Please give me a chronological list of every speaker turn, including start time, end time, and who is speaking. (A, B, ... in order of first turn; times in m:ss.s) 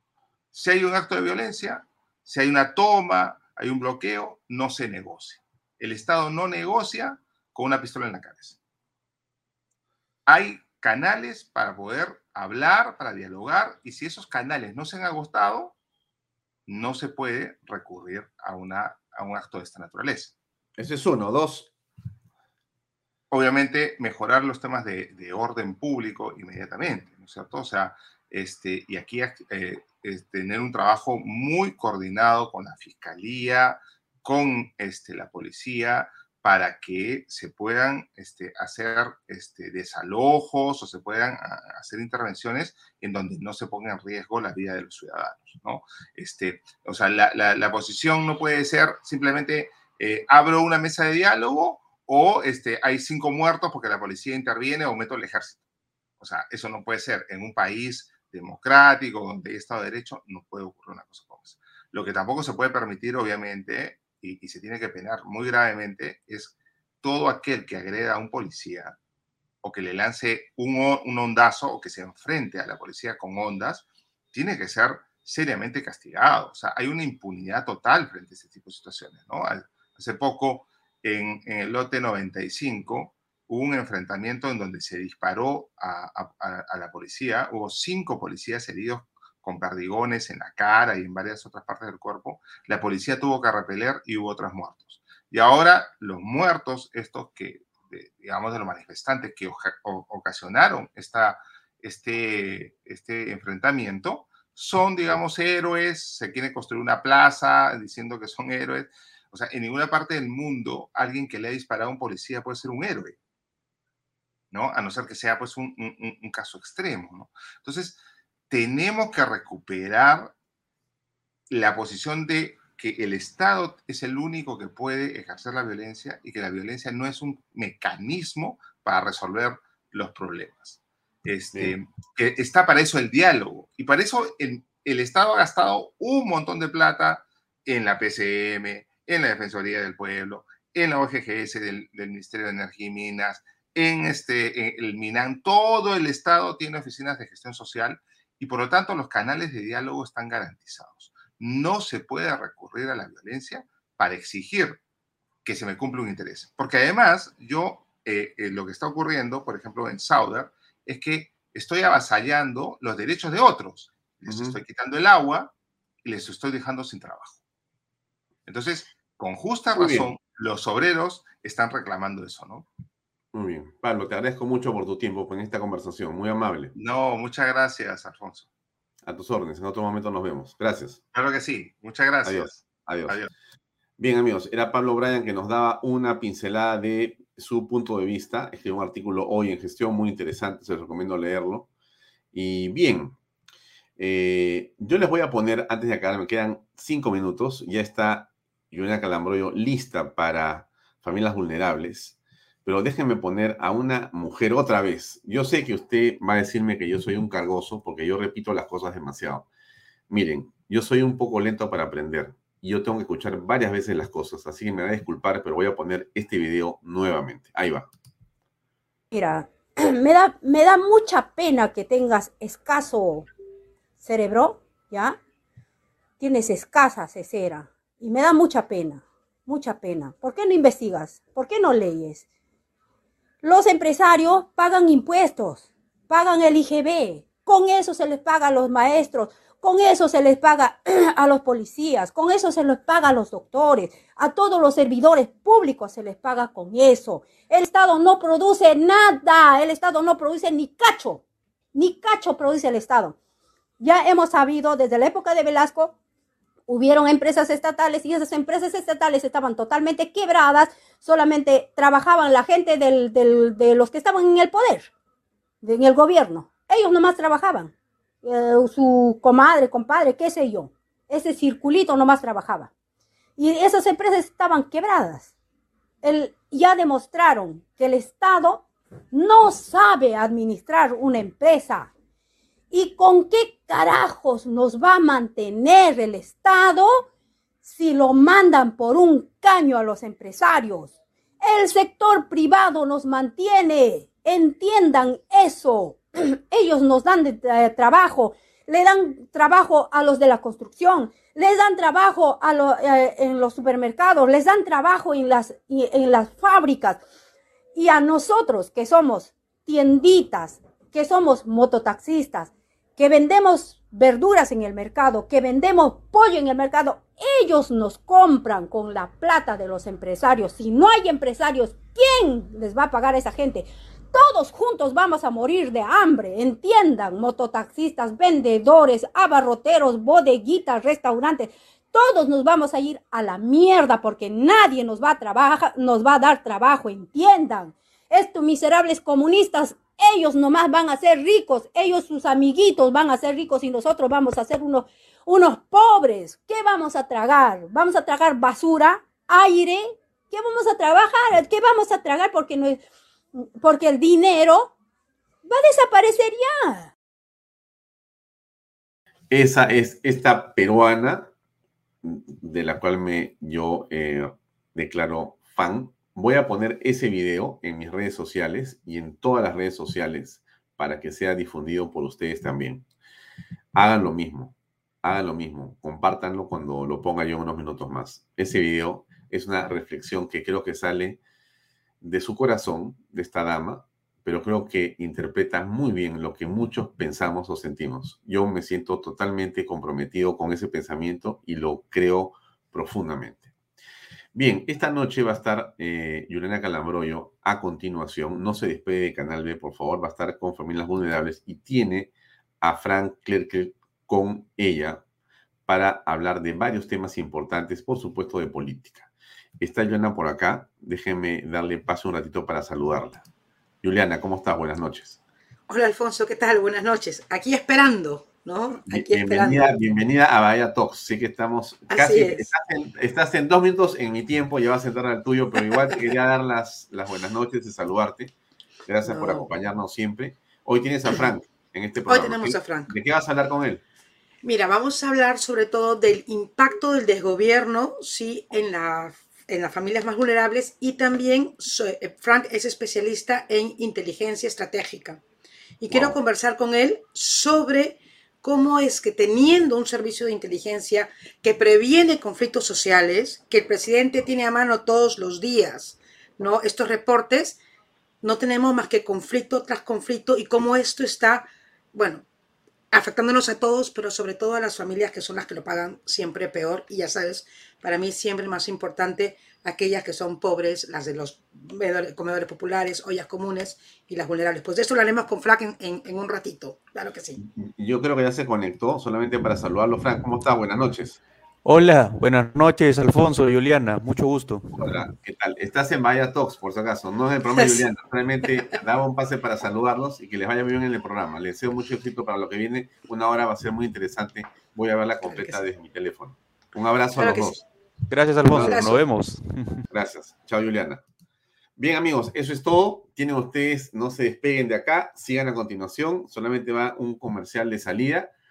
0:00.5-0:08.6 A
0:10.3-0:15.8 A
0:16.7-0:20.4 A
0:20.8-0:21.7 B
0:23.3-0:55.6 A
0:56.2-1:09.0 A
1:09.6-1:53.2 A
1:54.5-2:00.3 A
2:01.5-2:34.8 A
2:35.4-2:45.5 A
2:44.3-2:44.6 B
2:46.0-2:47.4 A
2:48.5-2:52.7 A
2:49.8-2:50.1 B
2:53.3-2:56.7 B
2:56.8-2:58.5 A
2:59.0-3:01.0 B
3:01.1-3:03.3 A
3:02.2-3:03.2 B
3:04.0-3:11.7 B
3:12.3-3:13.2 B
3:14.0-3:29.5 B
3:30.1-3:37.9 B
3:39.1-3:43.3 C
3:44.0-3:45.2 C
3:46.2-3:52.2 C
3:53.4-4:11.2 C
4:11.8-4:13.2 C
4:13.8-4:15.9 C
4:16.7-4:24.9 C
4:25.6-4:32.7 C
4:33.4-4:35.3 C
4:36.0-4:41.9 C
4:42.7-4:47.1 C
4:47.6-5:07.0 C
5:07.8-5:52.8 C
5:53.4-5:54.7 C
5:55.4-5:56.9 C
5:59.3-6:01.3 B
6:02.0-6:12.9 B
6:13.8-6:21.2 B
6:22.0-6:33.5 B
6:34.3-6:45.0 B
6:45.7-6:53.2 B
6:53.8-6:55.2 B
6:55.7-6:59.7 D
6:58.9-7:08.3 B
7:01.9-7:02.5 D
7:08.9-7:13.8 B
7:09.0-7:09.5 D
7:12.1-7:12.9 D
7:14.4-7:25.2 D
7:25.8-7:37.6 D
7:25.9-7:26.2 B
7:38.2-7:42.3 D
7:42.9-7:57.4 D
7:57.4-8:01.2 B
8:01.6-8:05.0 E
8:04.7-8:17.6 B
8:07.5-8:07.9 D
8:15.2-8:15.6 D
8:17.2-8:17.7 D
8:18.1-8:19.8 E
8:18.5-8:19.0 D
8:18.5-8:19.0 B
8:19.9-8:21.0 B
8:21.8-8:28.3 B